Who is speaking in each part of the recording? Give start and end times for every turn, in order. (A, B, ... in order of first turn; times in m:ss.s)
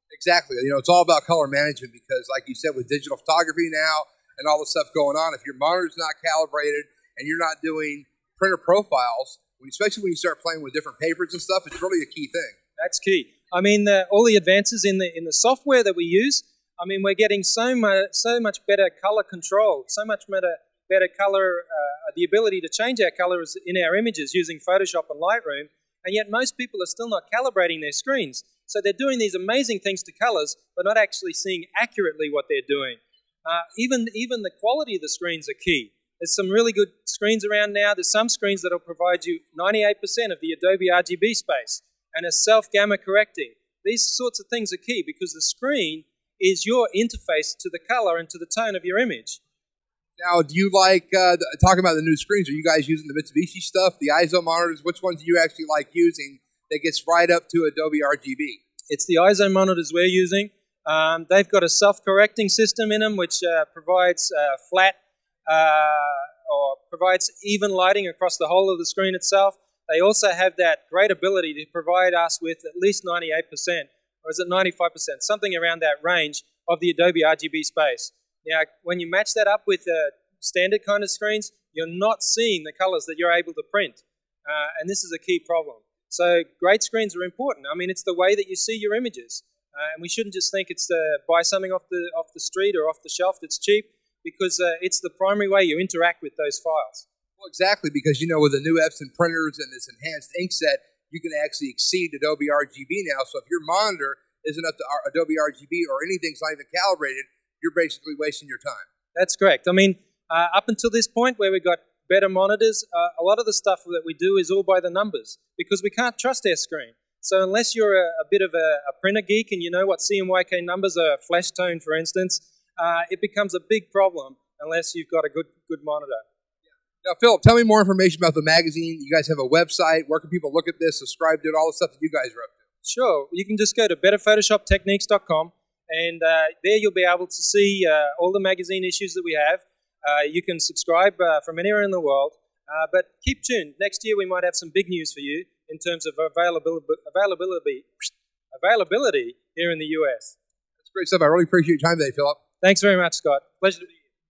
0:00.1-0:12.6 A
0:12.8-0:49.4 B
0:50.2-0:58.6 A
0:58.9-1:37.0 B
1:37.4-1:48.9 A
1:49.1-2:06.2 B
2:07.0-2:12.5 A
2:12.8-2:30.4 B
2:30.8-2:32.4 A
2:32.6-2:33.9 B